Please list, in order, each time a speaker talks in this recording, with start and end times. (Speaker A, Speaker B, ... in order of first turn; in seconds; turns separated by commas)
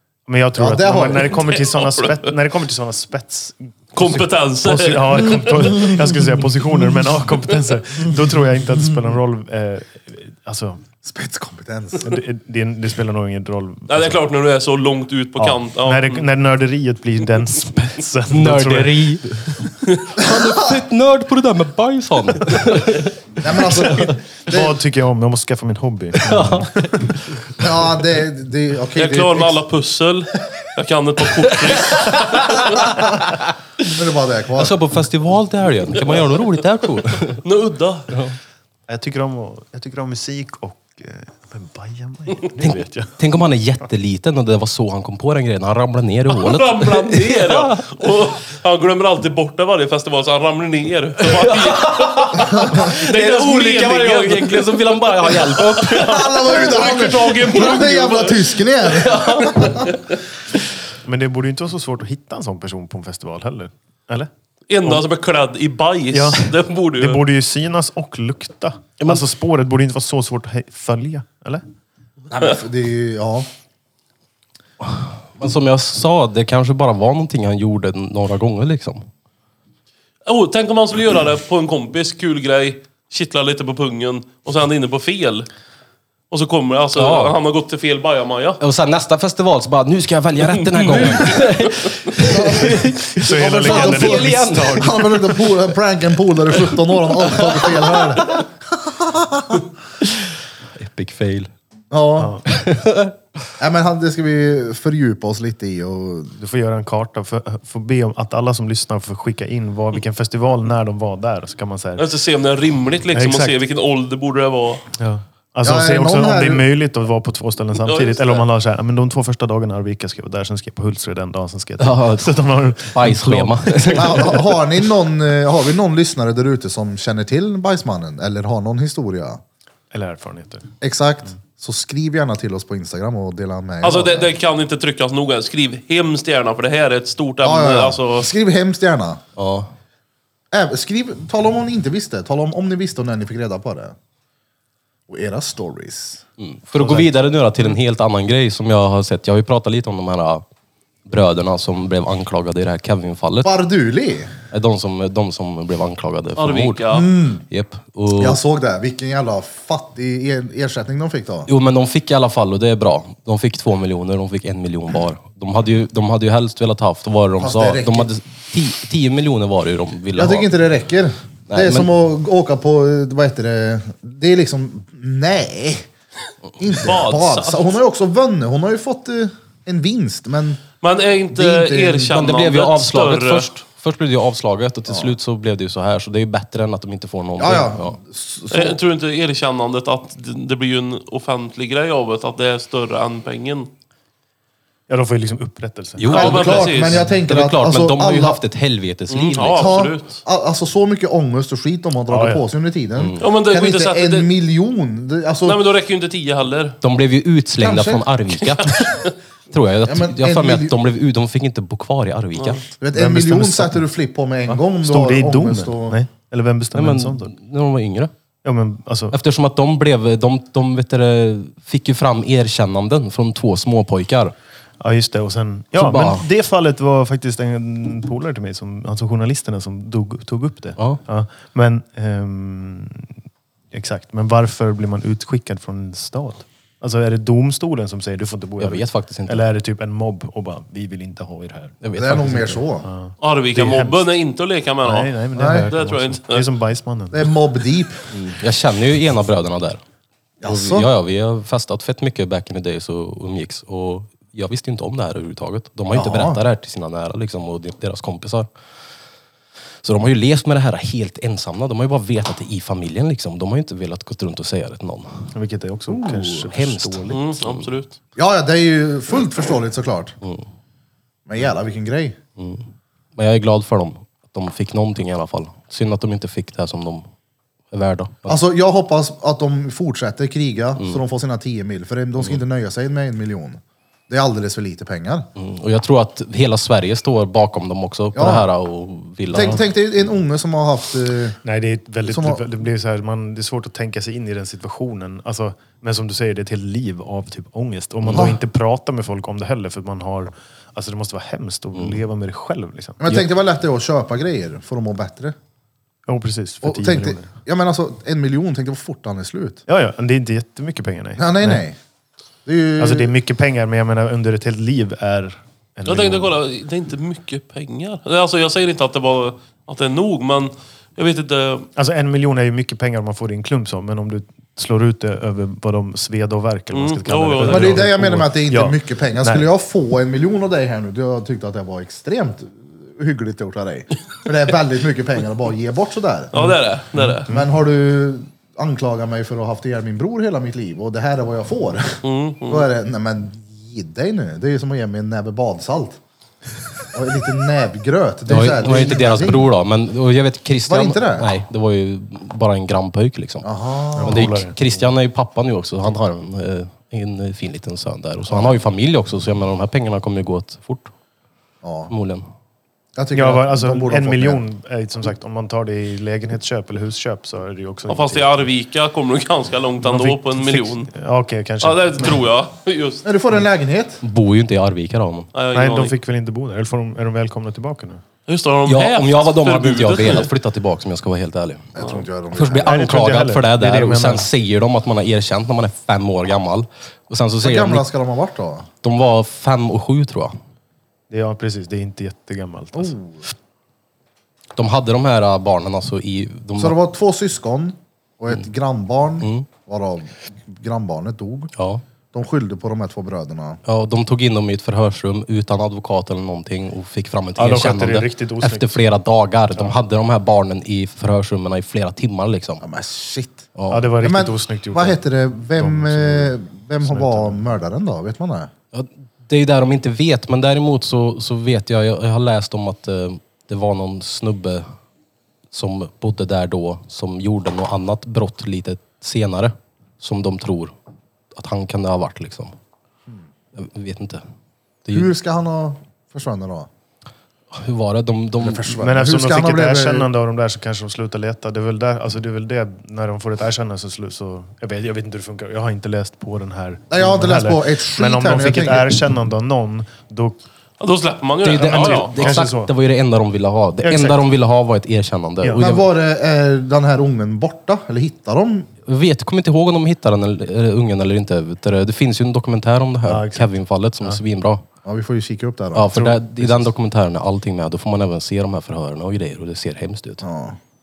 Speaker A: 0.3-10.8, Speaker B: 0.5-1.4, Speaker C: 1.4-2.2, Speaker C: 3.9-5.9, Speaker B: 11.0-12.1, Speaker A: 12.0-14.2, Speaker C: 13.9-16.3, Speaker A: 15.4-19.0, Speaker D: 18.3-24.1, Speaker B: 20.2-20.8, Speaker B: 23.4-24.8, Speaker A: 24.5-27.2, Speaker D: 26.2-27.4, Speaker B: 27.6-29.6, Speaker C: 28.9-32.7, Speaker D: 31.9-33.9, Speaker B: 33.9-34.7, Speaker D: 34.5-37.4, Speaker C: 36.0-36.3, Speaker C: 37.3-38.1, Speaker D: 38.1-38.4, Speaker A: 38.9-43.1, Speaker D: 42.6-47.9, Speaker C: 46.3-59.1, Speaker D: 51.3-56.7, Speaker B: 56.0-59.9, Speaker D: 58.9-59.9, Speaker A: 61.0-64.3, Speaker C: 64.7-67.2, Speaker A: 66.1-71.6, Speaker B: 72.3-73.5, Speaker D: 74.8-79.0, Speaker C: 80.2-85.5, Speaker C: 86.3-88.6, Speaker D: 87.0-87.4, Speaker D: 88.6-95.0, Speaker C: 90.6-91.9, Speaker B: 92.2-99.6, Speaker A: 92.7-95.1, Speaker D: 97.4-98.0, Speaker D: 100.7-101.5, Speaker B: 101.9-102.4, Speaker A: 102.2-102.4, Speaker D: 102.5-103.2, Speaker B: 103.6-106.3, Speaker A: 106.4-112.0, Speaker C: 112.0-114.9, Speaker A: 113.1-113.6, Speaker A: 115.0-124.5, Speaker B: 115.6-116.7, Speaker C: 117.8-118.4, Speaker D: 121.8-124.4, Speaker B: 123.9-129.4, Speaker A: 129.9-130.7, Speaker B: 130.8-134.3, Speaker C: 133.8-138.3, Speaker B: 137.4-139.2, Speaker D: 139.4-139.7, Speaker B: 140.5-143.9, Speaker B: 145.1-146.2, Speaker D: 146.4-150.4, Speaker A: 146.8-147.1, Speaker D: 151.1-153.5, Speaker B: 153.4-154.3, Speaker D: 154.5-156.9, Speaker C: 156.4-157.1, Speaker B: 156.9-157.4, Speaker D: 157.5-158.4, Speaker B: 158.2-161.5, Speaker D: 161.5-170.5, Speaker B: 167.4-168.1, Speaker B: 170.1-175.9, Speaker D: 171.5-171.9, Speaker B: 176.6-180.6, Speaker C: 176.8-177.7, Speaker C: 180.8-183.5, Speaker B: 181.3-182.1, Speaker D: 182.0-188.0, Speaker B: 184.9-185.1, Speaker B: 187.4-188.8, Speaker C: 188.5-193.7, Speaker A: 194.9-196.1, Speaker D: 196.0-199.8, Speaker C: 196.0-197.0, Speaker B: 196.1-198.4, Speaker C: 199.1-200.2, Speaker B: 199.5-205.6, Speaker A: 202.1-202.4, Speaker D: 203.0-203.2, Speaker C: 203.2-204.3, Speaker C: 205.4-206.8, Speaker D: 206.8-212.6, Speaker B: 207.6-208.1, Speaker C: 208.6-209.1, Speaker B: 209.8-210.7, Speaker B: 212.8-216.0, Speaker A: 212.9-213.8, Speaker A: 214.5-217.3, Speaker D: 216.7-218.1, Speaker A: 218.4-219.2, Speaker D: 219.1-224.3, Speaker A: 224.8-233.1, Speaker D: 225.7-226.2, Speaker A: 233.7-241.8, Speaker D: 238.6-239.4, Speaker D: 241.8-242.6, Speaker B: 241.9-242.9, Speaker A: 242.8-244.1, Speaker C: 243.2-246.5, Speaker A: 244.8-247.3, Speaker B: 245.3-245.7, Speaker B: 247.1-248.1, Speaker D: 248.1-249.8, Speaker B: 250.4-250.9, Speaker D: 250.4-258.5, Speaker B: 255.9-256.4, Speaker D: 259.8-265.3, Speaker A: 265.3-267.3, Speaker B: 265.9-266.5, Speaker D: 266.5-267.7, Speaker C: 267.1-267.9, Speaker B: 268.1-270.1, Speaker B: 271.2-272.2, Speaker D: 272.4-272.6, Speaker D: 273.1-277.1, Speaker D: 277.7-278.4, Speaker B: 278.3-285.3, Speaker D: 285.3-289.6, Speaker B: 288.1-288.5, Speaker B: 289.3-291.4, Speaker A: 291.4-303.3, Speaker B: 292.0-292.4, Speaker B: 298.1-298.4, Speaker B: 303.0-305.3, Speaker A: 306.1-307.3, Speaker B: 306.6-309.6, Speaker A: 309.7-311.6, Speaker B: 311.2-311.8, Speaker B: 312.4-313.1, Speaker A: 312.8-316.4, Speaker C: 315.9-321.7, Speaker A: 321.8-329.5, Speaker C: 326.7-327.9, Speaker B: 327.4-336.3, Speaker C: 336.3-337.3, Speaker A: 336.3-337.4, Speaker B: 337.3-346.0, Speaker C: 342.0-342.7, Speaker B: 346.9-349.5, Speaker D: 348.3-353.5, Speaker B: 350.7-351.3, Speaker B: 353.4-354.4, Speaker A: 353.9-354.6, Speaker D: 354.0-360.9, Speaker B: 358.3-358.6, Speaker B: 361.6-361.9, Speaker D: 361.9-362.3, Speaker B: 362.9-364.4, Speaker A: 363.1-368.4, Speaker C: 367.9-370.9, Speaker A: 369.8-372.2, Speaker C: 371.6-373.1, Speaker B: 373.0-374.0, Speaker D: 374.0-375.3, Speaker C: 375.3-375.9, Speaker A: 375.5-378.0, Speaker C: 378.3-380.3, Speaker D: 378.6-381.7, Speaker B: 381.7-382.9, Speaker D: 382.3-387.9, Speaker A: 382.6-384.3, Speaker B: 387.4-388.7, Speaker D: 388.8-390.4, Speaker A: 391.1-392.9, Speaker B: 392.7-393.3, Speaker D: 394.6-396.8, Speaker B: 396.6-401.5, Speaker D: 399.2-399.5, Speaker D: 401.6-401.8, Speaker B: 402.1-403.6, Speaker D: 403.6-412.6, Speaker A: 407.4-408.8, Speaker B: 412.6-418.5, Speaker D: 413.5-413.9, Speaker A: 413.7-415.0, Speaker A: 415.6-417.5, Speaker D: 418.7-424.6, Speaker D: 425.5-430.7, Speaker D: 431.3-432.5, Speaker D: 433.5-434.2, Speaker B: 434.9-436.7, Speaker D: 437.5-438.7, Speaker B: 438.4-440.1, Speaker A: 438.8-450.4, Speaker B: 446.9-449.0, Speaker C: 450.8-452.4, Speaker D: 451.4-455.9, Speaker A: 451.6-452.7, Speaker A: 453.8-454.2, Speaker A: 455.4-455.7, Speaker B: 455.6-458.7, Speaker D: 458.9-464.6, Speaker A: 463.0-464.2, Speaker B: 464.8-466.2, Speaker D: 465.7-470.2, Speaker A: 466.0-466.6, Speaker B: 470.2-470.6